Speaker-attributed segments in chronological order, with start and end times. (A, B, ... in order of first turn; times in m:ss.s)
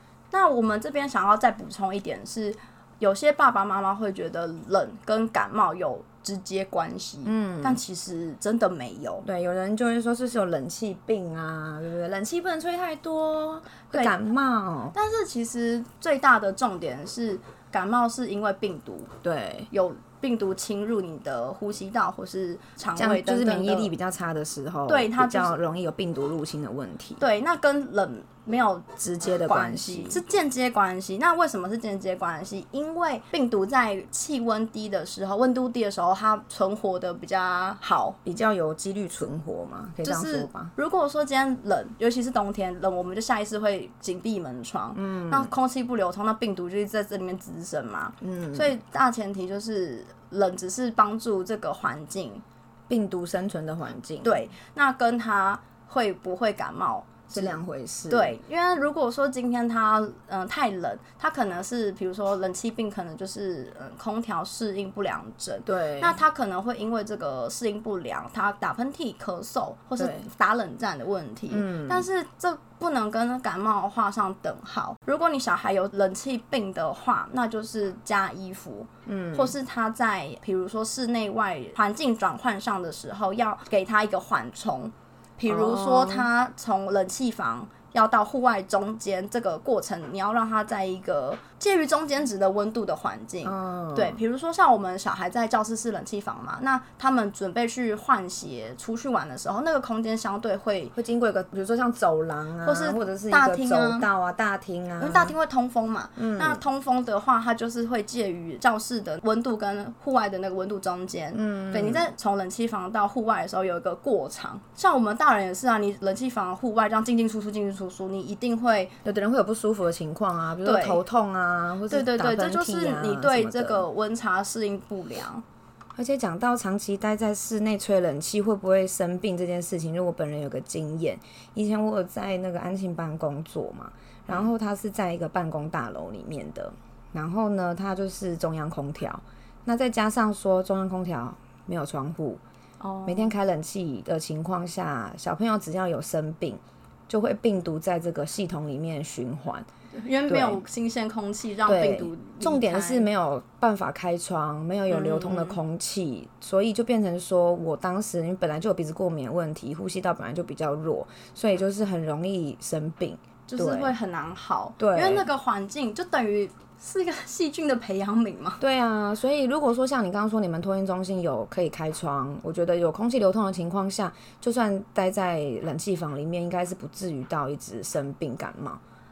0:00.3-0:09.2 A
0:07.2-0:07.8 B
0:09.2-0:14.9 B
0:13.9-0:14.2 A
0:14.9-0:19.1 A
0:19.2-0:19.7 B
0:19.7-0:23.9 A
0:23.0-0:27.2 B
0:24.9-0:25.5 A
0:27.2-0:38.2 A
0:29.0-0:30.2 B
0:38.2-0:40.7 B
0:40.0-0:52.4 A
0:44.9-0:45.5 B
0:48.2-0:48.7 B
0:52.9-0:54.4 B
0:54.2-1:40.9 A
0:57.3-0:58.3 B
1:05.6-1:06.2 B
1:10.0-1:10.3 B
1:11.5-1:12.1 B
1:19.0-1:19.5 B
1:25.5-1:26.3 B
1:33.4-1:34.2 B
1:40.9-1:45.4 B
1:42.6-1:44.1 A
1:45.0-1:58.9 A
1:46.2-1:46.6 B
1:51.3-1:52.1 B
1:59.0-2:03.8 B
2:00.6-2:01.0 A
2:01.9-2:05.4 A
2:06.0-2:22.4 B
2:22.8-2:23.4 A
2:23.0-2:29.7 B
2:29.9-2:33.1 A
2:30.3-2:30.6 B
2:31.6-2:44.0 B
2:34.9-2:35.6 A
2:43.5-2:48.6 A
2:44.8-2:45.3 B
2:48.6-2:58.8 B